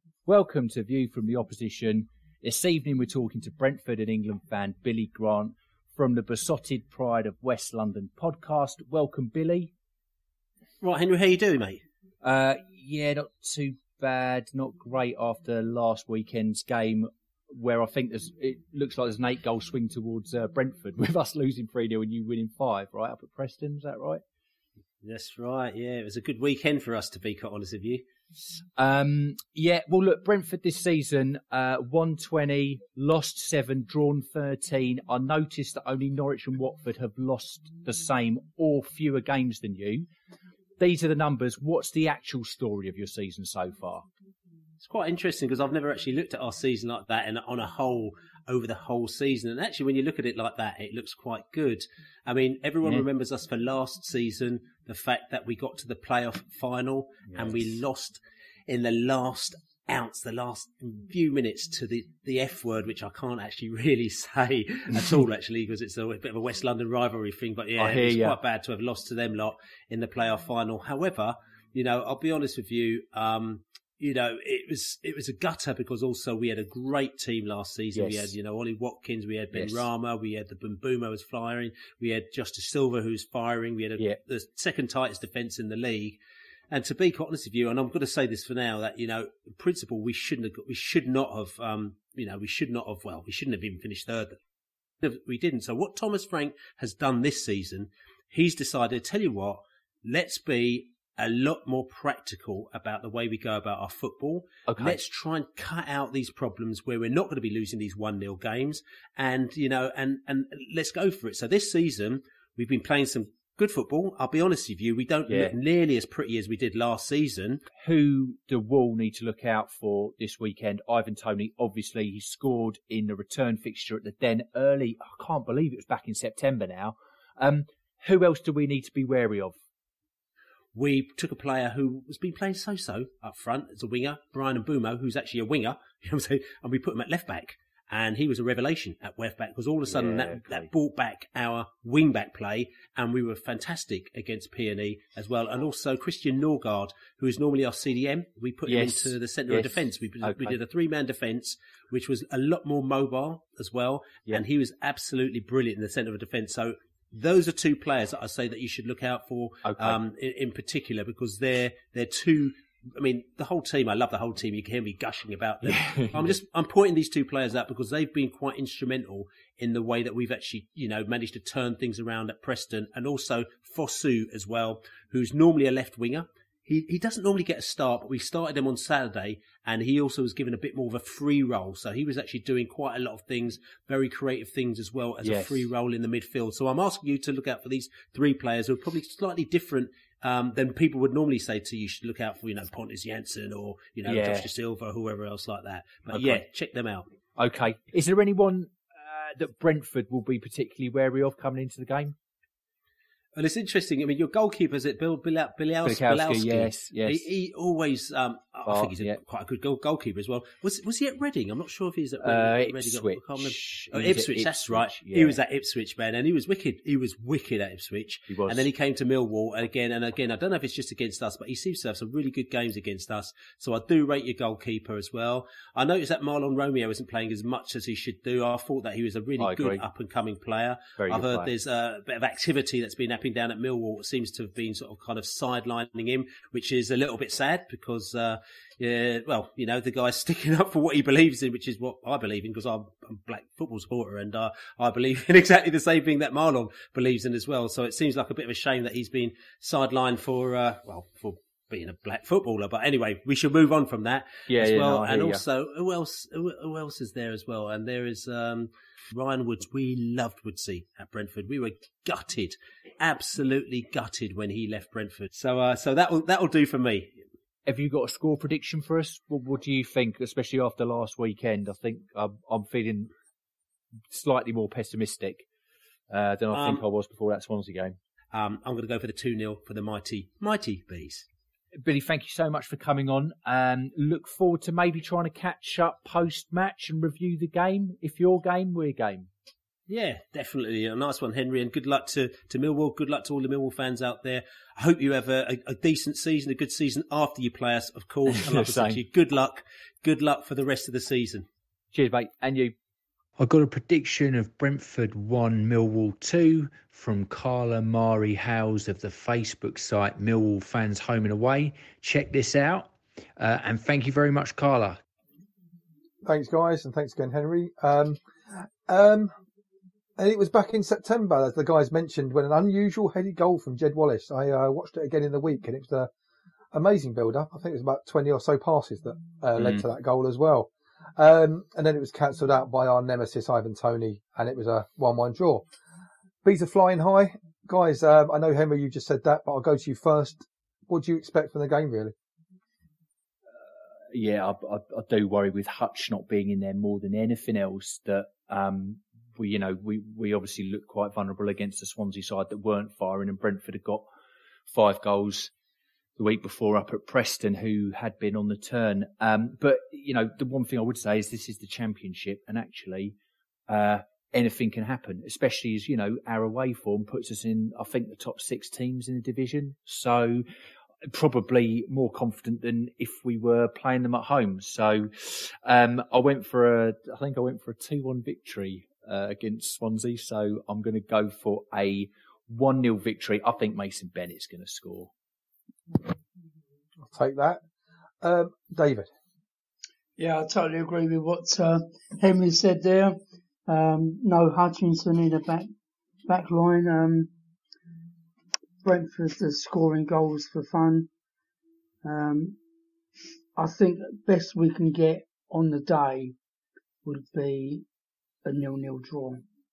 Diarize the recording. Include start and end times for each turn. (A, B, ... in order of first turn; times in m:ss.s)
0:00.2-0:09.7 A
0:10.8-0:11.8 B
0:12.2-0:24.2 A
0:25.0-0:28.0 B
0:28.8-0:40.0 A
0:40.8-0:44.0 A
0:44.8-1:26.2 B
0:57.3-0:57.8 A
1:07.8-1:08.4 A
1:17.9-1:18.4 A
1:19.5-1:19.9 A
1:26.7-1:34.4 B
1:35.0-1:57.6 B
1:44.6-1:45.1 A
1:55.3-1:55.6 A
1:57.8-2:09.6 A
2:10.7-3:17.1 B
2:19.9-2:20.7 A
2:28.6-2:30.6 A
2:39.6-2:40.0 A
2:45.6-2:46.4 A
3:05.2-3:05.7 A
3:14.0-3:14.5 A
3:16.1-3:16.4 A
3:17.4-3:22.2 A
3:23.3-4:27.2 B
3:25.8-3:27.3 A
3:28.6-3:29.2 A
3:32.2-3:35.4 A
3:38.3-3:38.7 A
3:49.4-3:49.8 A
3:51.0-3:51.5 A
4:14.5-4:15.4 A
4:27.6-4:33.1 A
4:34.1-4:35.4 A
4:36.1-4:38.0 A
4:36.5-4:36.8 B
4:38.3-4:41.3 B
4:41.8-4:49.3 A
4:49.9-5:01.4 B
4:58.4-4:59.0 A
5:01.9-5:02.7 A
5:03.4-5:15.0 C
5:16.2-5:18.2 D
5:18.9-5:19.3 D
5:20.2-5:26.1 D
5:26.7-5:35.6 D
5:36.4-5:42.1 D
5:43.5-5:54.0 A
5:54.7-5:55.5 A
5:56.2-6:03.2 A
6:03.7-6:10.4 A
6:11.1-6:25.1 A
6:27.0-6:27.6 D
6:28.2-6:29.1 D
6:30.2-6:35.7 E
6:36.2-6:37.3 E
6:38.8-6:41.1 E
6:42.0-6:42.6 E
6:43.6-6:46.3 E
6:47.0-6:47.8 E
6:48.4-6:49.4 E